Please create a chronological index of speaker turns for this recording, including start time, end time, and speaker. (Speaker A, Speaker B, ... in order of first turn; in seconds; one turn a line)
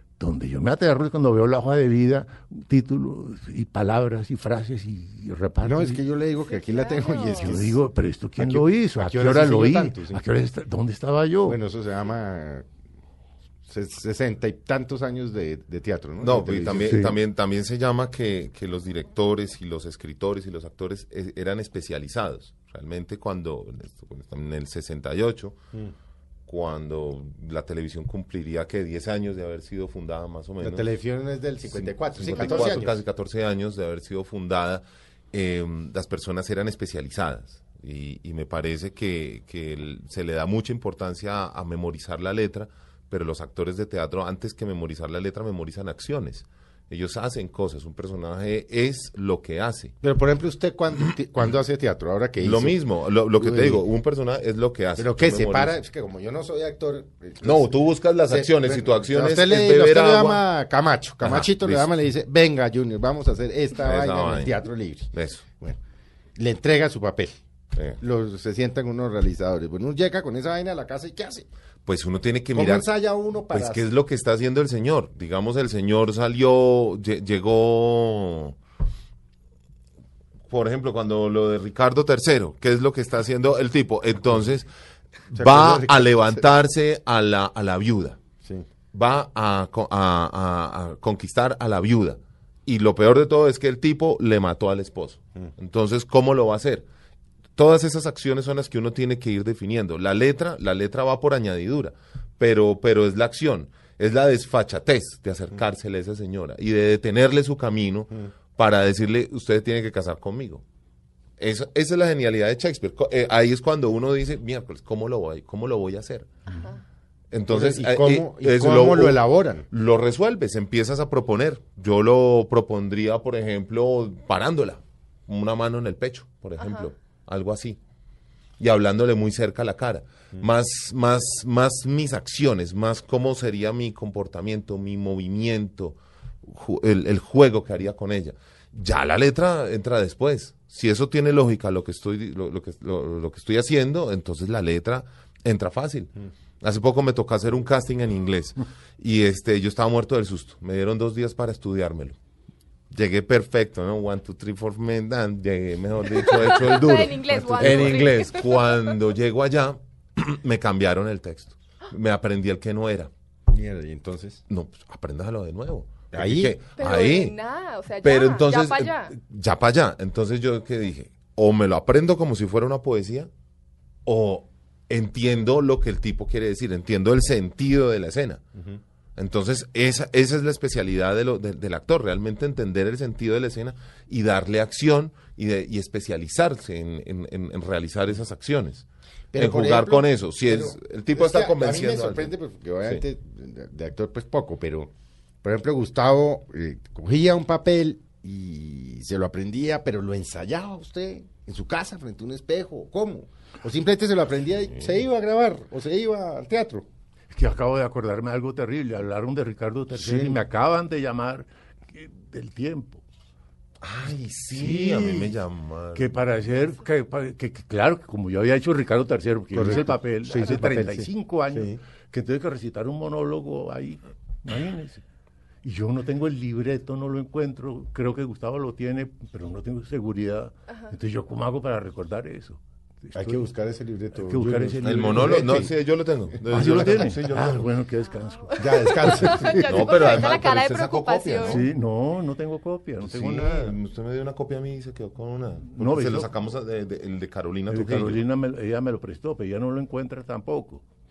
Speaker A: 0.2-6.0
Speaker B: 5.6-7.8
Speaker C: 6.4-7.5
Speaker A: 7.4-11.6
Speaker B: 8.4-10.2
Speaker B: 11.4-12.7
Speaker B: 13.7-17.0
Speaker D: 16.2-25.6
Speaker A: 16.9-17.1
Speaker D: 26.5-30.9
Speaker B: 30.6-33.0
Speaker D: 31.7-50.0
Speaker B: 50.0-52.8
Speaker D: 52.4-55.7
Speaker B: 53.4-53.8
Speaker B: 55.0-57.7
Speaker D: 57.4-60.4
Speaker B: 58.3-65.8
Speaker D: 61.2-61.9
Speaker D: 63.8-64.6
Speaker D: 65.1-65.4
Speaker B: 66.3-67.4
Speaker B: 68.0-71.5
Speaker D: 71.8-72.9
Speaker B: 72.5-73.8
Speaker D: 73.5-78.5
Speaker D: 80.5-84.7
Speaker D: 85.3-88.2
Speaker B: 85.3-86.4
Speaker D: 88.9-96.8
Speaker D: 97.5-110.6
Speaker D: 111.4-116.3
Speaker C: 116.5-116.8
Speaker D: 117.3-127.8
Speaker B: 117.5-119.6
Speaker C: 126.6-126.9
Speaker D: 128.6-152.2
Speaker D: 152.9-163.1
Speaker C: 156.2-158.8
Speaker B: 157.3-158.1
Speaker B: 163.5-164.4
Speaker D: 164.5-167.3
Speaker B: 166.1-166.6
Speaker C: 166.8-169.1
Speaker D: 168.0-173.3
Speaker D: 174.1-178.4
Speaker D: 179.2-192.3
Speaker B: 189.3-194.9
Speaker B: 195.4-206.9
Speaker A: 207.3-213.0
Speaker B: 209.9-210.4
Speaker D: 213.8-216.1
Speaker A: 214.5-215.3
Speaker A: 215.9-225.0
Speaker B: 219.5-221.8
Speaker A: 225.6-233.5
Speaker B: 233.1-235.7
Speaker A: 234.1-235.7
Speaker D: 234.8-237.7
Speaker A: 236.4-239.7
Speaker C: 238.5-241.6
Speaker B: 238.6-239.6
Speaker D: 239.5-241.7
Speaker A: 241.4-243.7
Speaker D: 243.0-248.2
Speaker A: 245.7-246.3
Speaker A: 247.7-250.8